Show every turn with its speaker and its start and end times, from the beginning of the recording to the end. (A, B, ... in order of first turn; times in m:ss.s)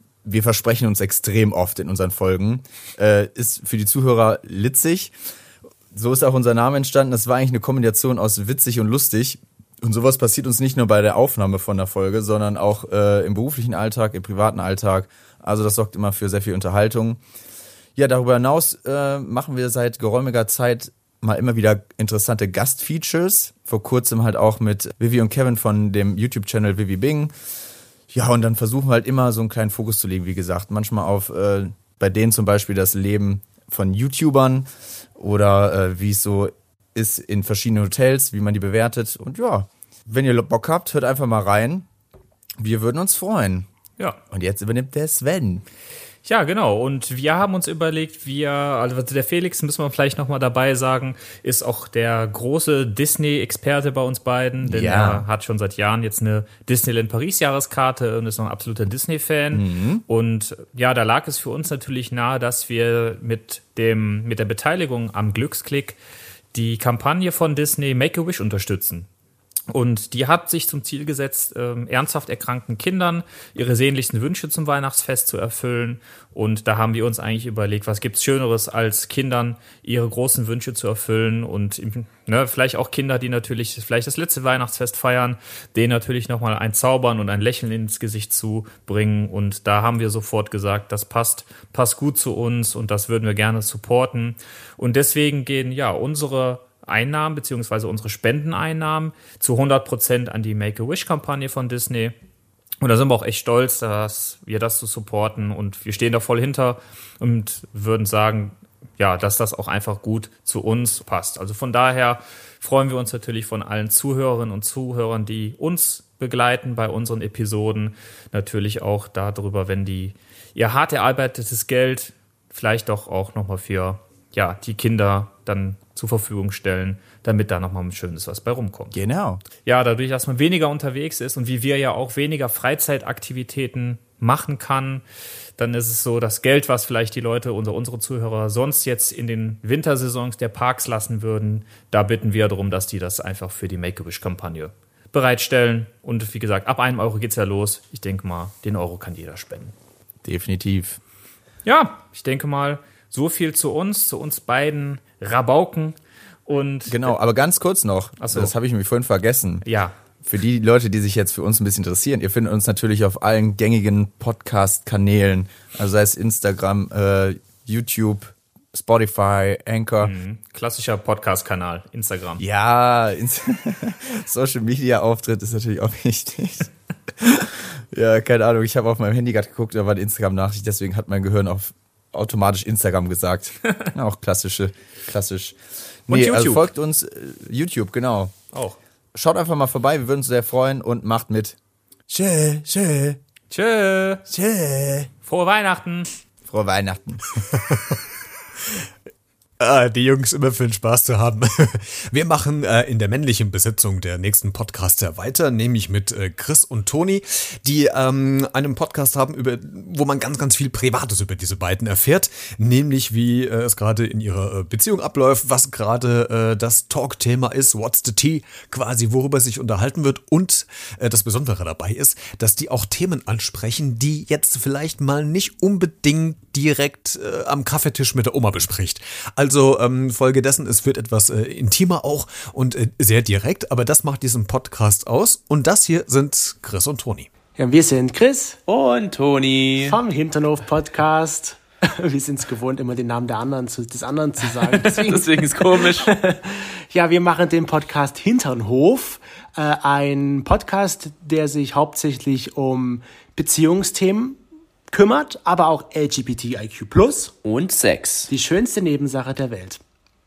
0:00.2-0:05.1 A
0:05.9-0:17.2 A
0:18.0-0:27.3 A
0:28.1-0:41.8 A
0:42.6-0:43.7 A
0:44.3-0:45.6 A
0:46.2-1:06.0 B
0:54.6-0:55.2 A
0:59.5-1:00.0 A
1:06.5-1:09.1 B
1:09.7-1:42.1 B
1:42.8-2:09.0 B
2:08.9-2:09.4 A
2:09.6-2:15.0 B
2:15.6-2:29.7 B
2:30.2-2:31.0 A
2:31.6-2:37.1 B
2:36.9-2:39.6 A
2:38.2-2:38.5 B
2:39.6-2:40.0 B
2:40.2-2:50.1 A
2:50.0-2:52.4 B
2:52.4-2:56.7 A
2:57.2-3:05.6 A
3:06.1-3:08.3 A
3:06.1-3:06.7 B
3:08.5-3:08.8 B
3:09.1-3:11.6 A
3:12.1-3:13.2 A
3:13.5-3:14.2 B
3:14.3-3:15.1 A
3:15.2-3:16.1 B
3:16.4-3:17.4 A
3:19.6-3:57.3 C
3:57.6-3:58.6 D
3:58.7-4:00.0 E
3:59.8-4:17.3 D
4:04.8-4:06.1 E
4:17.4-4:18.3 E
4:18.3-4:19.8 D